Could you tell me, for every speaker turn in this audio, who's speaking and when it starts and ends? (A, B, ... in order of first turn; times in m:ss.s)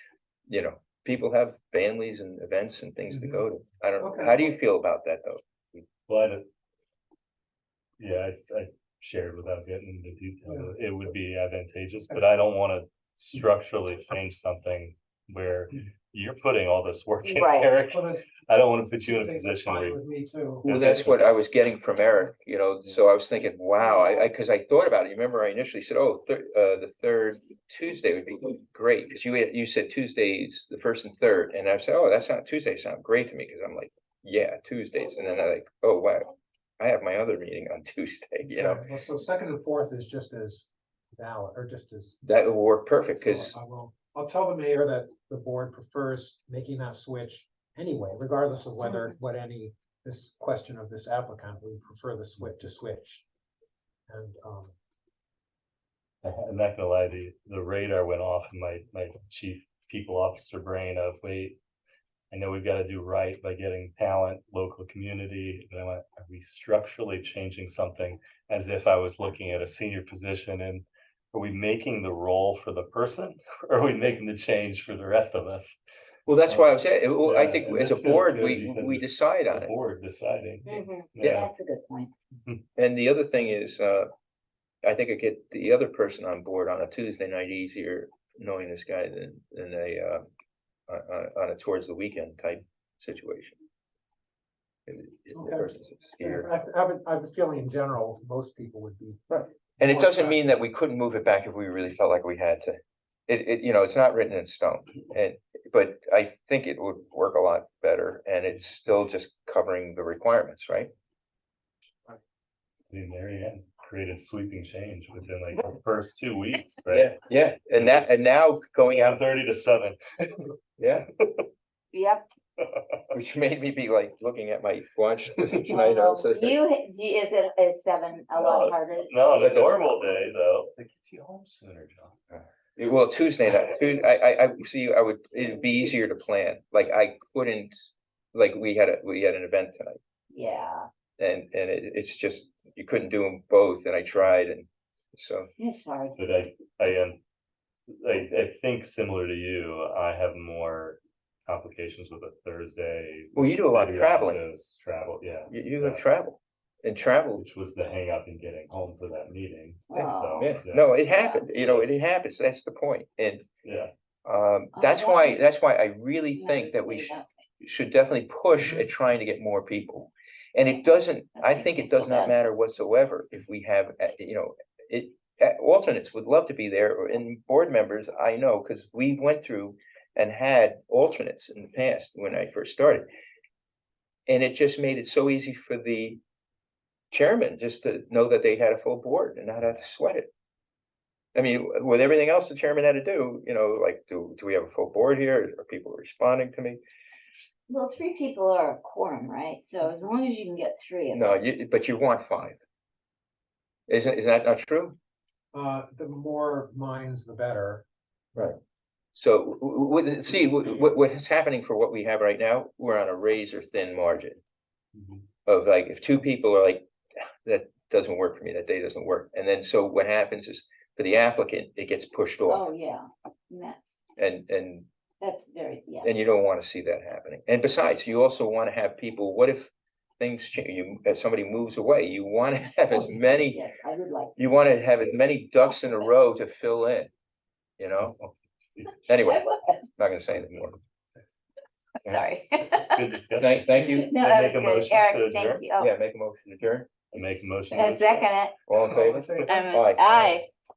0:00.5-0:05.8 A
0:03.1-0:03.4 B
0:04.0-0:04.4 B
0:06.1-0:06.4 C
0:08.0-0:20.0 C
0:17.2-0:17.7 D
0:17.9-0:18.3 B
0:19.0-0:20.7 B
0:20.6-0:38.8 A
0:20.6-0:21.2 C
0:23.8-0:24.3 D
0:38.5-0:42.2 B
0:42.2-0:43.6 A
0:43.2-0:53.2 B
0:54.1-0:54.7 B
0:56.2-1:01.6 C
1:02.3-1:15.8 C
1:16.3-1:19.7 A
1:16.5-1:21.5 C
1:20.7-1:22.1 D
1:21.2-1:21.5 A
1:22.8-1:24.1 A
1:24.8-1:30.3 A
1:30.9-1:33.6 A
1:34.9-1:36.5 A
1:35.3-1:40.4 B
1:39.3-1:50.9 A
1:52.9-1:58.2 C
1:56.9-1:59.2 A
1:58.8-2:00.5 C
2:00.8-2:01.1 A
2:01.9-2:02.3 D
2:02.6-2:03.0 C
2:03.1-2:06.6 A
2:05.6-2:09.1 D
2:08.3-2:12.2 C
2:09.4-2:10.0 A
2:12.3-2:20.0 A
2:20.3-2:20.9 D
2:21.2-2:25.5 A
2:25.6-2:26.2 D
2:26.2-2:27.2 C
2:28.0-2:36.0 C
2:33.4-2:34.4 A
2:35.5-2:37.4 A
2:37.4-2:41.0 C
2:39.9-2:41.6 D
2:40.4-2:43.4 A
2:41.6-2:41.8 C
2:43.6-2:43.9 C
2:44.2-3:03.1 A
2:44.7-2:45.5 D
2:46.3-2:47.3 D
2:48.6-2:48.8 B
2:50.6-2:52.4 D
3:04.3-3:06.2 A
3:07.1-3:10.3 A
3:11.4-3:16.8 A
3:17.7-3:21.6 D
3:21.1-3:22.6 A
3:23.9-3:25.0 A
3:25.5-3:27.8 B
3:29.1-3:34.4 A
3:35.0-3:35.2 C
3:35.5-3:36.8 A
3:37.4-3:42.7 A
3:42.5-3:44.0 D
3:44.2-3:44.9 A
3:45.2-3:46.1 D
3:46.0-3:53.6 A
3:53.4-3:54.5 D
3:54.4-3:57.1 A
3:57.8-3:58.2 A
3:58.1-3:59.0 C
3:59.1-3:59.4 A
3:59.2-3:59.9 D
4:00.0-4:00.8 A
4:00.3-4:00.7 C
4:02.1-4:03.0 D
4:02.8-4:05.6 C
4:03.4-4:04.1 A
4:03.9-4:05.9 D
4:05.8-4:06.9 A
4:07.1-4:08.3 C
4:07.7-4:08.6 D
4:08.7-4:10.4 A
4:08.8-4:09.6 B
4:09.5-4:10.5 D